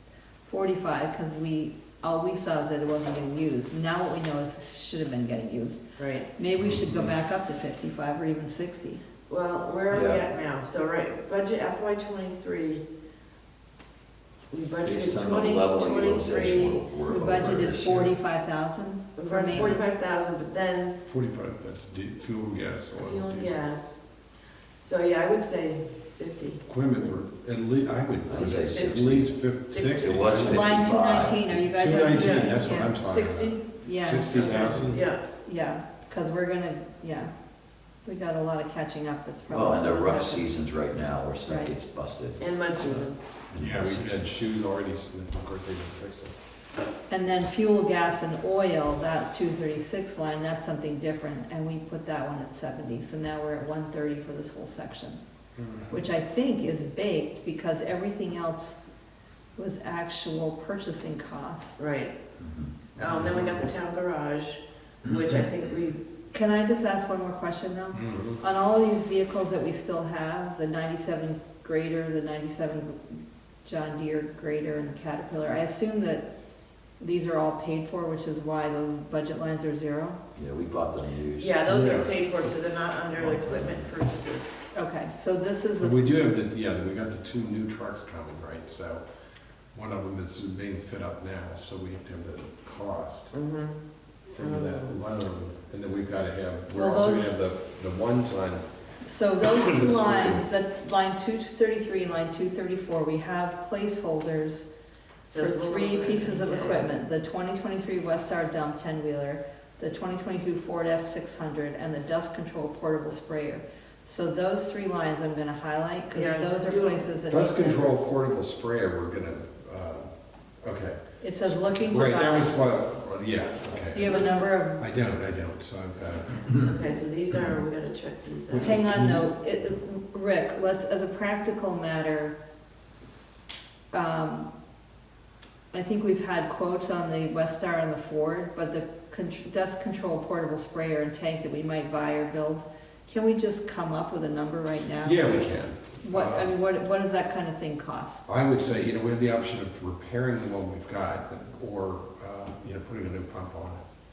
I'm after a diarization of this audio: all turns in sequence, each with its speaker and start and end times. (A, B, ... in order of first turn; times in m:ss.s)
0:00.4-0:05.8 A
0:06.0-0:06.3 B
0:06.3-0:09.0 A
0:09.3-0:12.8 B
0:09.9-0:10.2 C
0:14.5-0:16.8 B
0:14.8-0:18.2 C
0:17.1-0:19.9 A
0:19.2-0:20.9 B
0:21.0-0:23.6 D
0:23.0-0:24.0 B
0:24.8-0:26.6 B
0:26.7-0:30.8 D
0:28.2-0:29.4 C
0:28.7-0:29.0 B
0:29.6-0:30.2 B
0:30.0-0:31.6 C
0:30.5-0:33.0 A
0:31.6-0:35.0 D
0:32.1-0:33.6 B
0:33.8-0:37.3 A
0:34.4-0:35.2 B
0:34.5-0:34.9 C
0:38.0-0:40.6 A
0:39.5-0:42.5 C
0:41.4-0:41.7 A
0:42.4-0:43.2 B
0:43.5-0:44.3 C
0:43.6-0:46.3 D
0:47.1-0:55.2 A
0:55.6-0:55.9 D
0:55.9-0:58.8 A
0:59.6-1:02.0 A
1:01.8-1:02.2 B
1:02.4-1:02.9 C
1:03.0-1:06.0 B
1:03.0-1:03.6 D
1:06.3-1:16.3 A
1:07.9-1:08.4 D
1:17.0-1:20.2 A
1:20.3-1:21.6 C
1:21.4-1:24.5 B
1:21.6-1:22.1 D
1:23.2-1:23.9 C
1:24.7-1:26.0 A
1:25.8-1:29.0 D
1:29.7-1:33.3 D
1:33.3-1:33.8 B
1:34.3-1:38.6 D
1:34.4-1:35.0 B
1:36.7-1:37.2 A
1:39.0-1:44.7 A
1:39.4-1:40.4 D
1:45.3-1:46.9 B
1:45.3-1:58.0 A
1:56.1-1:57.1 B
1:57.3-2:06.5 D
2:01.2-2:02.6 A
2:03.9-2:04.8 A
2:06.6-2:08.8 B
2:08.5-2:09.2 D
2:08.6-2:12.3 A
2:13.9-2:14.5 A
2:15.7-2:28.2 A
2:25.0-2:26.5 D
2:28.3-2:33.8 D